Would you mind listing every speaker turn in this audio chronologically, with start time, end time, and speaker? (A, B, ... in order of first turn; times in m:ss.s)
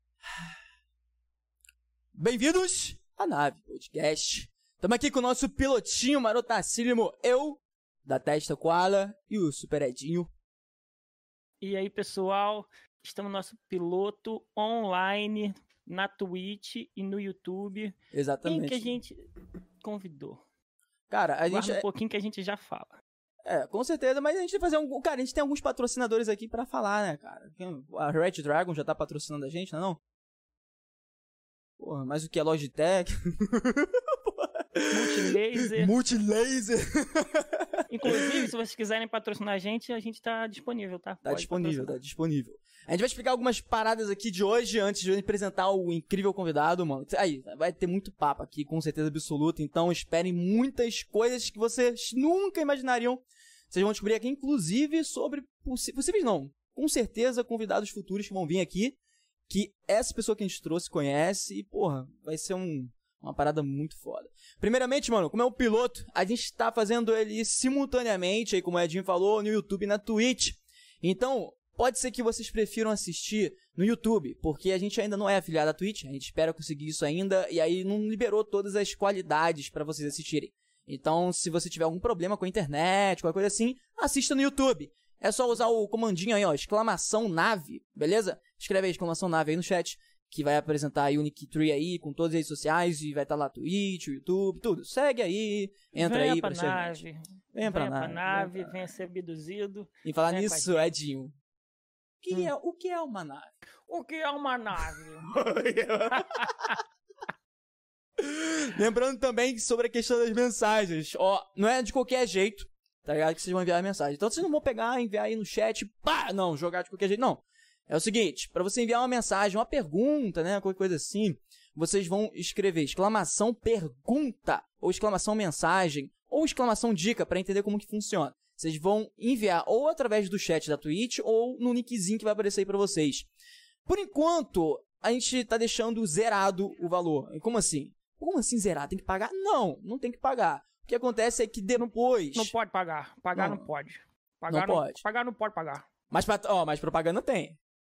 0:02.2-0:10.3 A
0:11.6-0:19.3 B
0:18.1-0:19.0 A
0:19.8-0:20.4 B
0:21.1-0:21.8 A
0:21.5-0:23.0 B
0:23.4-0:30.0 A
0:31.8-0:38.5 A
0:34.9-0:35.9 B
0:37.9-0:42.0 B
0:41.2-0:59.0 A
0:59.5-1:37.0 A
1:36.0-1:40.9 B
1:37.5-1:38.8 A
1:40.0-1:41.3 A
1:42.2-1:43.5 A
1:43.9-1:45.3 B
1:45.3-1:46.7 A
1:46.2-1:46.4 B
1:48.2-2:13.3 A
2:13.9-2:22.6 A
2:21.8-2:25.8 B
2:23.3-2:23.7 A
2:24.5-2:25.0 A
2:26.1-2:27.6 A